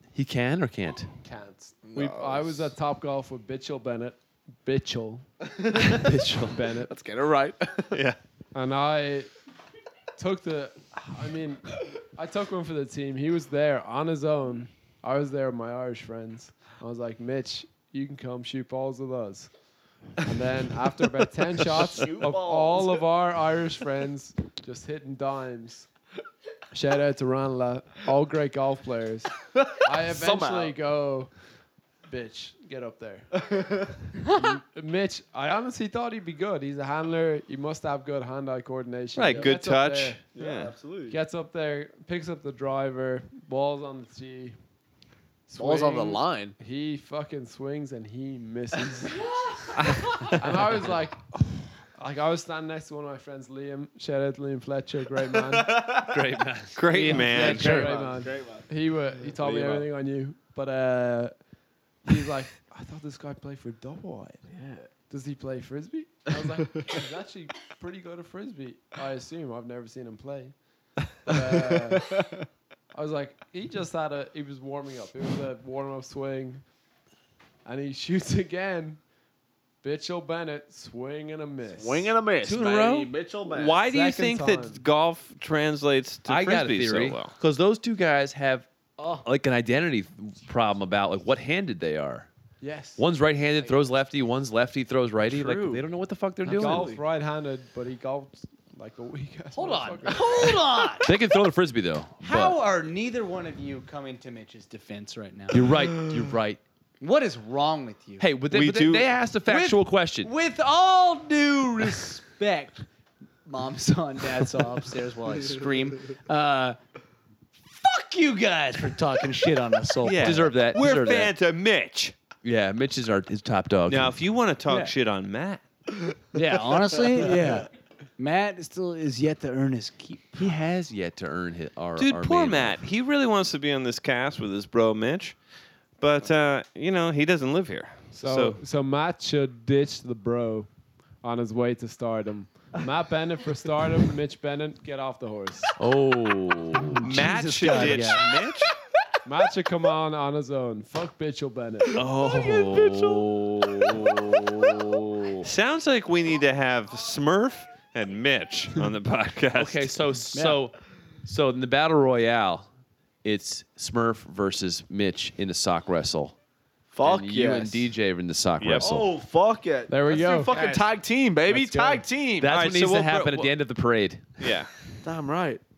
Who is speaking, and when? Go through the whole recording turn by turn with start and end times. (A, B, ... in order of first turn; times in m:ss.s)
0:00.1-0:01.1 A
0:01.2-0:06.9 B
0:01.8-0:02.7 C
0:05.6-0:06.0 C
0:05.9-0:06.6 A
0:06.8-0:08.0 C
0:07.9-0:08.2 D
0:08.5-0:09.3 B
0:10.2-0:19.5 B
0:20.2-0:25.9 B
0:21.6-0:23.0 C
0:26.7-0:31.3 B
0:29.5-0:30.7 C
0:32.1-0:33.4 B
0:33.4-0:33.9 C
0:34.2-0:40.2 B
0:39.1-0:40.7 D
0:40.3-0:41.2 C
0:41.1-0:44.6 B
0:45.5-0:49.3 B
0:45.6-0:46.6 C
0:50.3-0:56.0 B
0:55.4-0:56.2 C
0:56.0-0:57.2 A
0:56.7-0:57.8 D
0:56.9-0:58.0 E
0:57.1-0:58.7 C
0:57.1-1:01.4 B
0:59.3-0:59.9 C
1:02.0-1:04.4 B
1:04.5-1:04.9 C
1:05.0-1:10.5 B
1:11.1-1:12.2 B
1:11.7-1:12.4 C
1:12.9-1:16.6 B
1:17.6-1:19.0 B
1:19.8-1:22.2 B
1:21.7-1:23.8 C
1:22.4-1:23.1 A
1:23.5-1:27.3 D
1:23.8-1:24.8 B
1:26.2-1:28.7 A
1:29.0-1:29.2 B
1:29.2-1:32.3 A
1:32.6-1:33.0 B
1:33.0-1:36.9 A
1:35.3-1:35.8 C
1:36.4-1:40.5 B
1:36.5-1:37.0 C
1:39.5-1:41.1 E
1:41.0-1:42.6 A
1:42.2-1:45.8 E
1:45.5-1:46.6 A
1:47.0-1:48.3 E
1:48.2-1:50.3 A
1:48.5-1:49.2 D
1:49.5-1:52.9 E
1:53.4-1:56.8 E
1:57.6-2:00.5 E
2:00.0-2:02.2 D
2:00.2-2:01.3 A
2:02.4-2:04.9 A
2:03.9-2:05.6 D
2:06.3-2:10.5 E
2:10.4-2:12.8 A
2:12.0-2:15.4 D
2:16.0-2:18.6 D
2:18.1-2:20.7 B
2:21.2-2:25.7 B
2:25.8-2:27.2 A
2:26.8-2:28.4 E
2:27.0-2:28.8 D
2:29.2-2:32.0 B
2:32.0-2:35.5 A
2:32.0-2:34.0 C
2:35.4-2:40.0 D
2:39.5-2:42.7 A
2:40.3-2:40.6 E
2:43.2-2:46.4 A
2:46.9-2:47.9 C
2:47.0-2:49.1 A
2:48.6-2:48.9 D
2:48.8-2:52.5 C
2:49.9-2:50.5 B
2:50.5-2:50.9 E
2:51.5-2:52.1 B
2:52.4-2:54.6 A
2:52.5-2:53.5 D
2:54.4-2:54.7 D
2:55.0-2:55.6 C